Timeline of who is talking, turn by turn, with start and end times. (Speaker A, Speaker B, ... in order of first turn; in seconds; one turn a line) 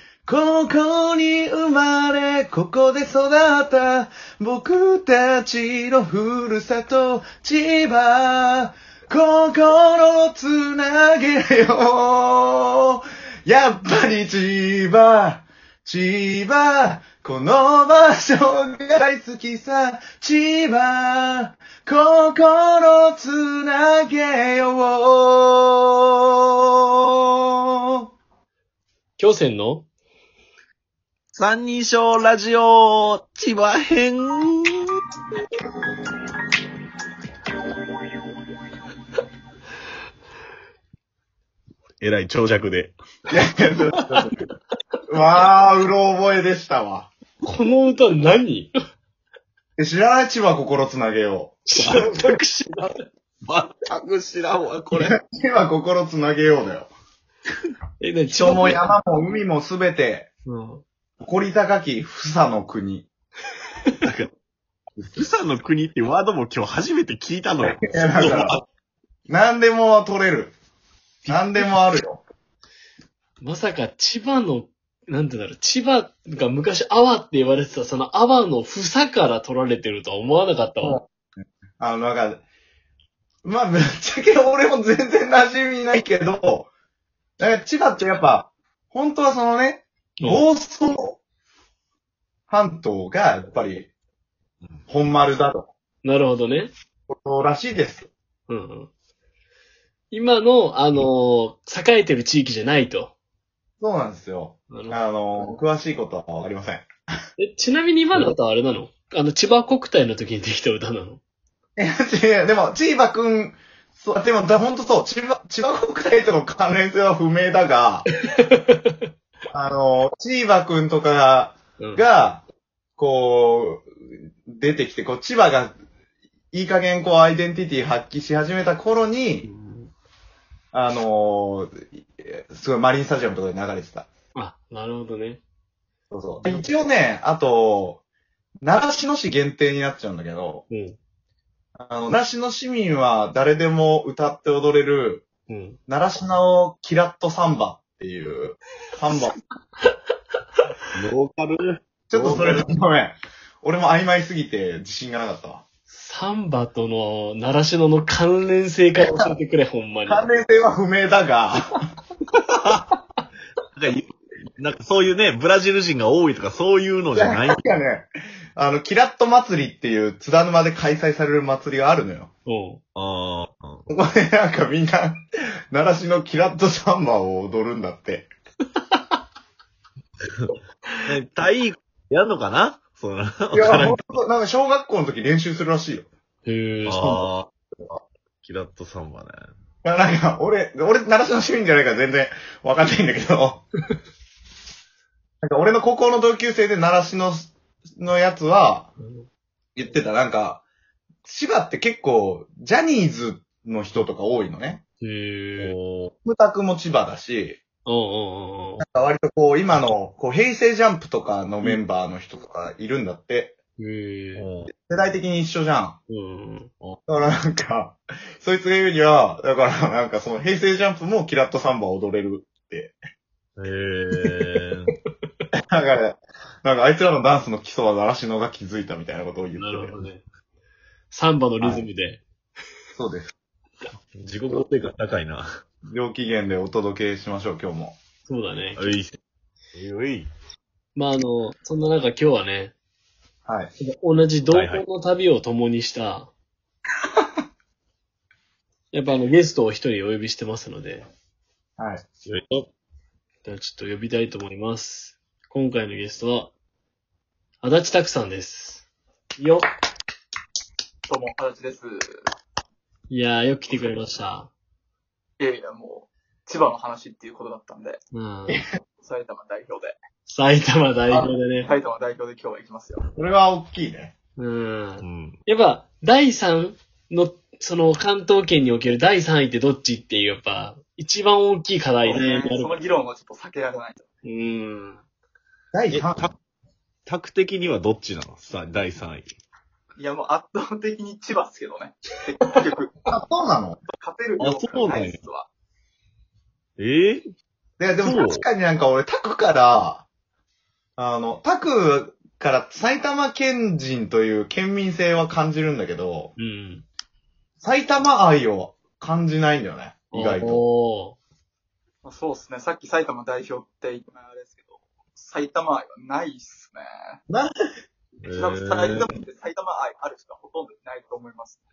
Speaker A: 0.2-26.0
Speaker B: 29.2-29.9
Speaker C: 31.3-35.0
Speaker C: 42.0-42.9
Speaker A: 43.3-44.4
Speaker A: 45.1-47.1
Speaker B: 47.4-48.7
Speaker A: 49.8-51.6
Speaker B: 51.7-52.9
Speaker C: 51.8-52.1
Speaker C: 53.4-55.1
Speaker A: 54.9-56.9
Speaker B: 58.0-58.9
Speaker A: 58.3-60.3
Speaker B: 60.5-60.8
Speaker A: 61.2-63.1
Speaker C: 64.0-64.3
Speaker C: 65.1-68.6
Speaker A: 67.6-68.6
Speaker A: 69.3-70.5
Speaker B: 71.2-71.8
Speaker A: 71.3-72.2
Speaker B: 73.4-81.0
Speaker A: 81.8-82.4
Speaker A: 83.4-86.7
Speaker A: 87.4-91.2
Speaker A: 92.5-93.9
Speaker A: 94.9-95.7
Speaker B: 96.0-96.7
Speaker A: 97.1-98.1
Speaker B: 98.5-98.9
Speaker B: 100.1-103.1
Speaker A: 103.8-106.9
Speaker B: 104.7-105.6
Speaker B: 107.4-111.2
Speaker A: 111.8-118.1
Speaker B: 118.4-118.7
Speaker A: 119.5-122.4
Speaker B: 121.8-122.0
Speaker A: 123.0-123.9
Speaker A: 124.4-125.8
Speaker A: 126.5-129.5
Speaker B: 129.4-129.9
Speaker A: 130.7-134.1
Speaker B: 134.3-135.4
Speaker A: 136.1-138.0
Speaker B: 136.4-136.8
Speaker A: 138.6-140.7
Speaker B: 140.7-141.0
Speaker A: 141.8-145.3
Speaker B: 145.5-145.8
Speaker A: 145.9-149.4
Speaker C: 150.9-152.6
Speaker A: 152.1-155.6
Speaker B: 155.9-160.3
Speaker A: 159.0-159.3
Speaker A: 160.1-161.6
Speaker C: 163.8-167.6
Speaker A: 167.2-172.3
Speaker B: 172.4-172.8
Speaker C: 172.9-173.8
Speaker A: 173.9-178.3
Speaker C: 181.0-184.0
Speaker A: 183.5-186.1
Speaker B: 186.4-187.3
Speaker C: 186.8-187.5
Speaker C: 188.4-189.3
Speaker A: 189.8-193.7
Speaker A: 195.4-198.9
Speaker B: 199.0-199.3
Speaker A: 199.8-200.6
Speaker A: 201.2-204.8
Speaker B: 205.0-205.8
Speaker C: 205.6-206.1
Speaker A: 206.2-207.6
Speaker B: 207.8-208.8
Speaker A: 208.8-213.6
Speaker B: 213.8-214.5
Speaker C: 214.3-214.7
Speaker A: 214.7-216.0
Speaker B: 216.1-216.7
Speaker A: 217.1-223.0
Speaker C: 223.6-224.9
Speaker A: 225.7-230.0
Speaker B: 229.6-230.2
Speaker B: 231.1-232.2
Speaker A: 232.9-233.3
Speaker C: 234.1-235.5
Speaker A: 235.9-238.0
Speaker B: 238.2-238.9
Speaker C: 238.8-239.2
Speaker C: 239.7-240.3
Speaker B: 240.9-242.7
Speaker A: 243.4-243.7
Speaker B: 243.8-246.3
Speaker C: 244.5-244.8
Speaker B: 248.9-251.1
Speaker A: 251.8-252.0
Speaker C: 252.3-252.7
Speaker B: 253.4-256.5
Speaker B: 257.6-259.7
Speaker D: 261.1-262.2
Speaker B: 263.1-264.5
Speaker D: 265.4-268.0
Speaker B: 268.1-268.6
Speaker D: 269.0-270.0
Speaker B: 270.2-271.7
Speaker D: 271.6-273.0
Speaker A: 273.1-274.1
Speaker B: 274.4-282.7
Speaker C: 275.0-275.4
Speaker D: 282.0-284.1
Speaker B: 284.2-285.0
Speaker A: 285.7-286.3
Speaker C: 285.9-286.3
Speaker C: 287.1-289.3
Speaker D: 289.9-293.0
Speaker A: 293.1-293.8
Speaker D: 293.9-295.5
Speaker C: 294.4-295.2
Speaker C: 296.8-297.2
Speaker A: 297.8-300.1
Speaker C: 298.0-298.4
Speaker A: 301.0-306.3
Speaker B: 306.4-306.9
Speaker A: 307.6-310.6
Speaker B: 310.1-311.2
Speaker D: 312.0-317.2
Speaker A: 317.3-317.5
Speaker C: 318.2-319.1
Speaker D: 318.3-321.6